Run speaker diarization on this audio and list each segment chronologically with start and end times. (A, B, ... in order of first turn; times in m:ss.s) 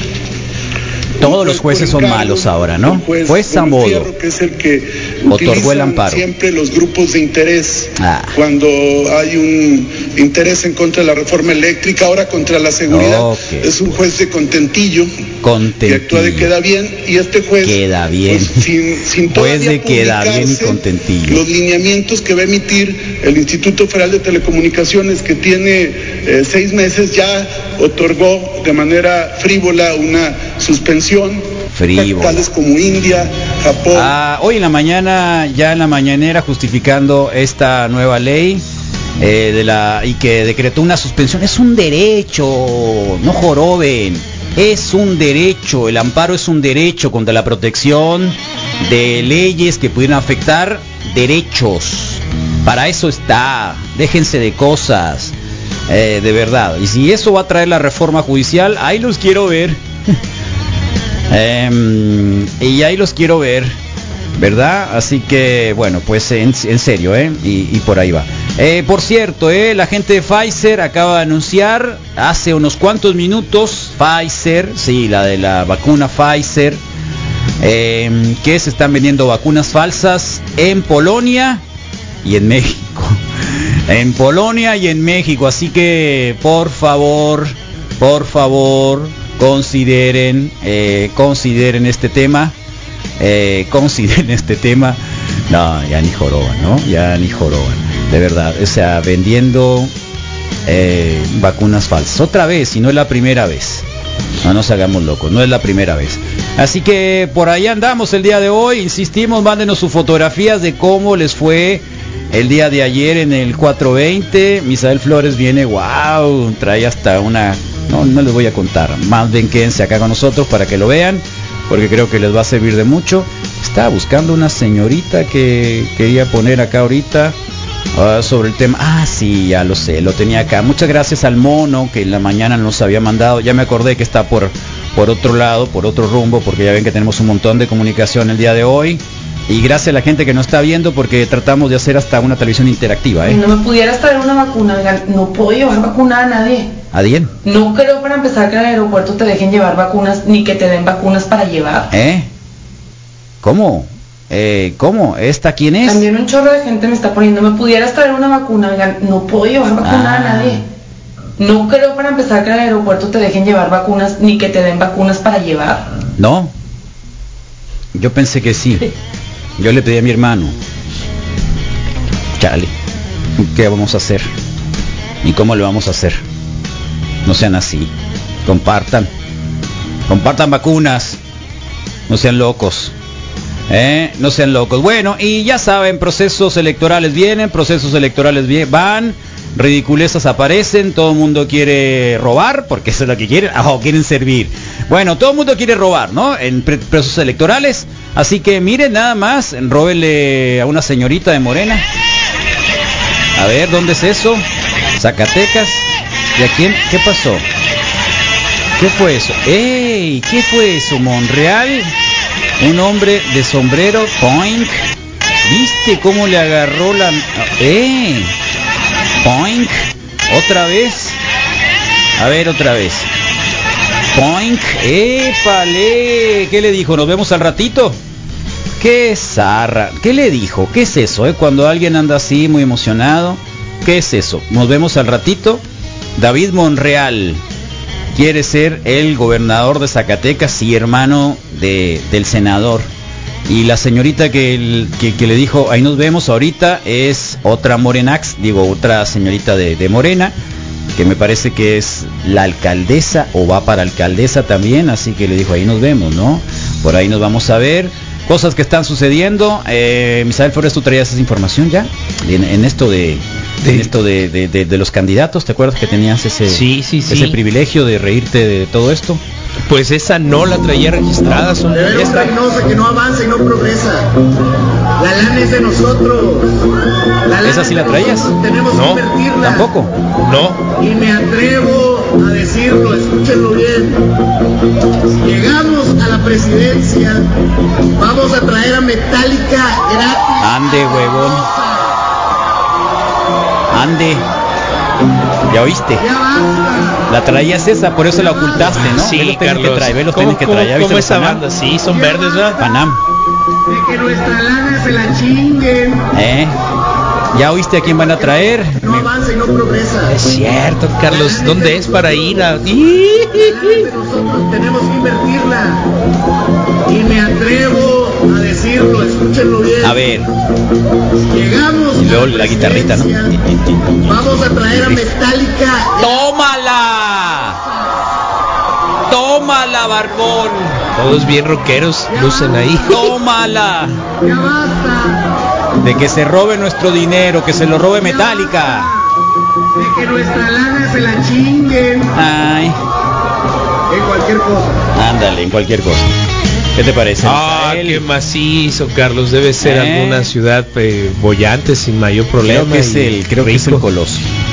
0:01.2-0:04.1 A
0:01.2-0:15.1 B
0:05.3-0:06.2 A
0:08.0-0:08.4 A
0:12.9-0:13.7 A
0:15.4-0:16.5 A
0:15.8-0:31.5 B
0:17.6-0:18.6 A
0:19.3-0:21.4 A
0:31.7-0:32.4 A
0:32.0-0:34.1 B
0:33.9-0:38.6 A
0:39.2-0:55.3 A
0:55.9-0:59.8 A
1:01.3-1:03.8 A
1:04.4-1:16.8 A
1:17.6-1:21.6 A
1:22.2-1:23.2 A
1:23.9-1:32.6 A
1:33.2-1:39.9 A
1:40.7-1:43.8 A
1:44.4-2:07.4 A
2:08.0-2:23.4 A
2:23.2-2:26.7 C
2:26.9-2:27.3 A
2:27.4-2:31.9 C
2:31.9-2:32.3 A
2:33.4-2:36.1 A
2:35.8-2:40.6 C
2:39.8-2:40.6 A
2:41.4-2:45.9 C
2:46.2-2:46.5 A
2:47.9-2:48.8 A
2:49.6-2:50.6 A
2:52.4-2:52.7 A
2:53.4-2:54.3 A
2:55.2-2:56.2 A
2:57.2-2:57.9 A
2:58.5-2:59.1 A
3:00.1-3:01.2 A
3:02.1-3:02.9 A
3:03.7-3:21.8 A
3:23.4-3:24.4 A
3:25.0-3:27.4 A
3:28.8-3:31.9 A
3:32.6-3:34.8 A
3:35.4-3:38.3 A
3:39.2-3:41.2 A
3:42.2-3:43.1 A
3:44.2-3:48.0 A
3:48.8-3:55.6 A
3:56.2-3:57.4 A
3:58.2-4:02.9 A
4:03.5-4:10.3 A
4:11.0-4:29.2 A
4:23.6-4:23.9 D
4:26.5-4:27.4 D
4:29.7-4:32.3 D
4:31.7-4:34.1 E
4:35.0-4:36.6 E
4:37.3-4:39.7 E
4:37.4-4:38.3 A
4:38.7-4:39.0 D
4:39.4-4:39.9 A
4:40.2-4:40.6 D
4:40.8-4:44.0 E
4:45.2-4:47.2 E
4:48.0-4:52.0 E
4:50.4-4:51.5 A
4:53.7-4:54.2 A
4:55.5-4:56.0 A
4:56.0-4:57.0 E
4:57.1-5:01.4 A
4:58.2-4:58.8 E
4:58.8-5:02.6 D
5:01.9-5:02.6 E
5:02.6-5:03.0 A
5:03.7-5:06.1 E
5:06.1-5:06.6 A
5:07.3-5:09.1 A
5:07.9-5:10.2 E
5:10.1-5:13.9 D
5:11.1-5:12.8 E
5:13.3-5:15.8 E
5:16.9-5:20.0 E
5:19.8-5:20.3 A
5:21.3-5:23.3 E
5:22.0-5:25.1 A
5:24.1-5:26.3 E
5:26.0-5:27.6 A
5:29.1-5:30.8 A
5:31.0-5:33.0 D
5:32.1-5:33.1 E
5:32.9-5:34.0 A
5:34.2-5:35.2 E
5:35.8-5:38.9 A
5:37.9-5:39.1 E
5:39.8-5:42.2 E
5:42.1-5:42.8 A
5:43.9-5:44.8 E
5:44.9-5:46.1 A
5:46.8-5:48.0 A
5:47.2-5:53.8 D
5:49.6-5:50.3 A
5:52.4-5:54.3 A